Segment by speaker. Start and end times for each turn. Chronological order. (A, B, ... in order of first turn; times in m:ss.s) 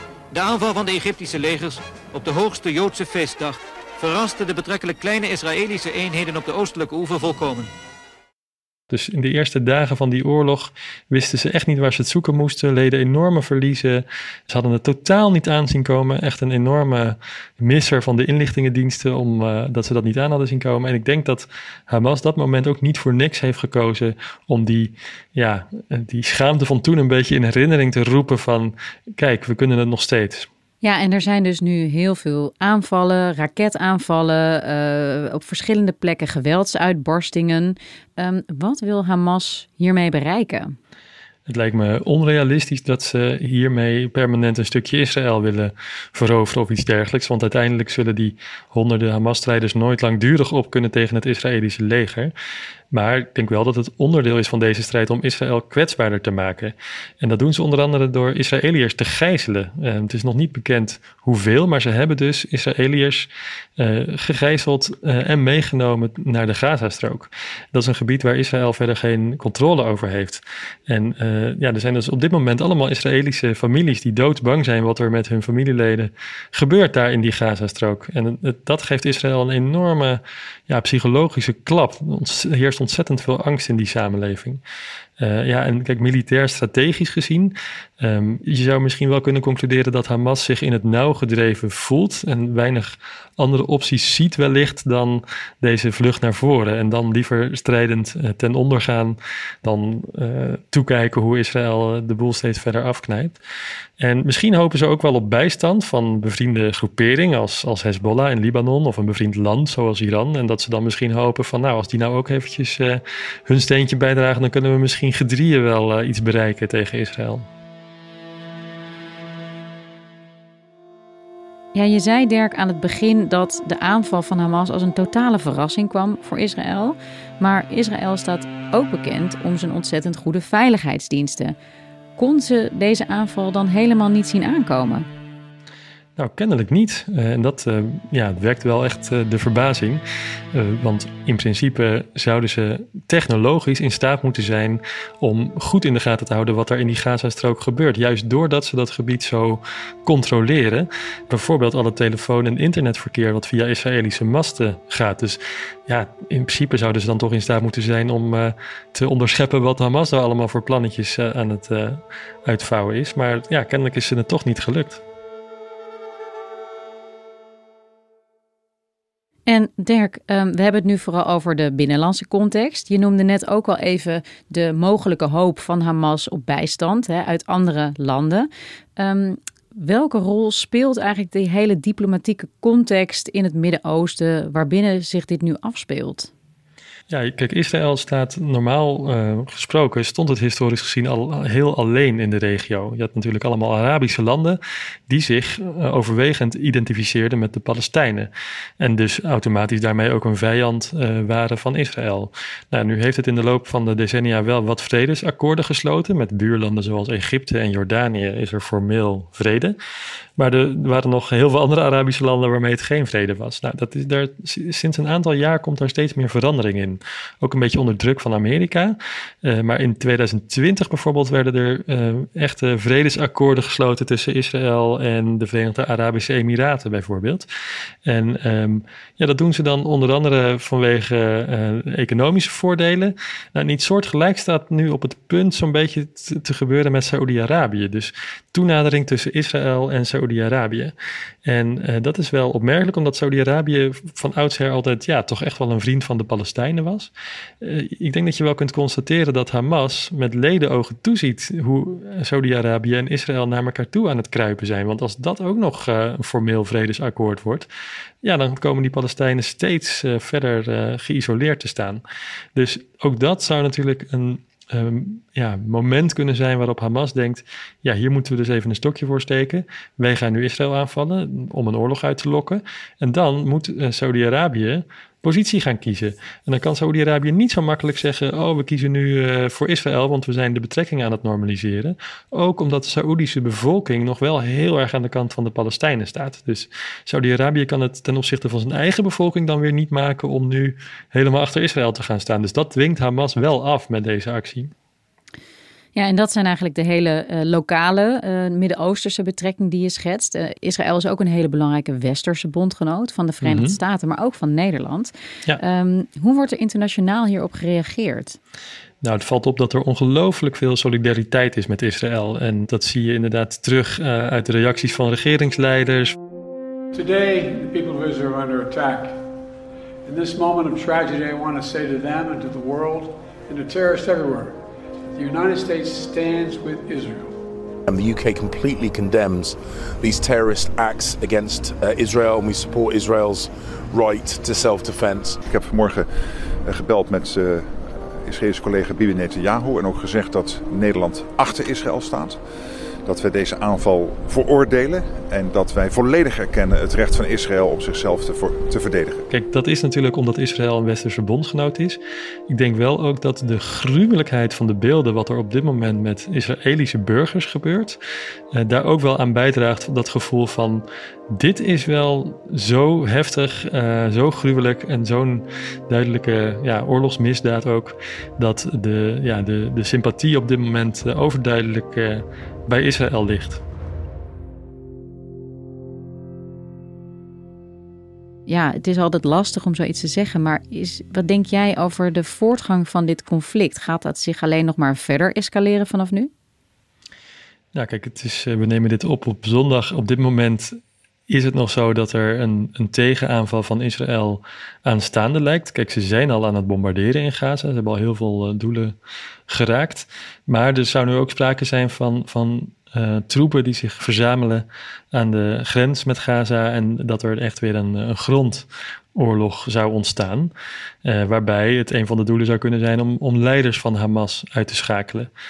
0:00.3-0:07.7 A
0:08.9-0:30.5 B
0:30.8-0:40.8 C
0:41.5-0:52.3 B
0:52.9-1:24.6 B
1:25.2-1:43.4 B
1:44.0-1:57.4 B
2:01.7-2:11.5 C
2:12.2-2:15.1 C
2:16.2-2:20.0 B
2:20.5-2:45.0 B
2:49.5-3:06.3 C
3:07.1-3:29.8 B
3:30.4-3:47.5 B
3:48.1-4:00.9 B
4:01.4-4:07.1 B
4:07.6-4:17.7 B
4:18.2-4:22.0 B
4:22.5-4:54.7 B
4:55.9-5:08.4 C
5:03.4-5:03.8 B
5:09.0-5:16.1 B
5:16.9-5:19.1 D
5:20.0-5:24.5 D
5:25.1-5:27.3 D
5:28.0-5:29.5 E
5:30.1-5:35.3 E
5:35.5-5:36.1 F
5:36.6-5:42.4 F
5:43.0-5:49.2 F
5:49.3-5:58.0 B
5:58.5-6:13.6 B
6:18.5-6:26.3 C
6:27.7-6:30.7 B
6:31.3-6:38.9 B
6:39.5-6:50.5 B
6:51.0-6:55.3 B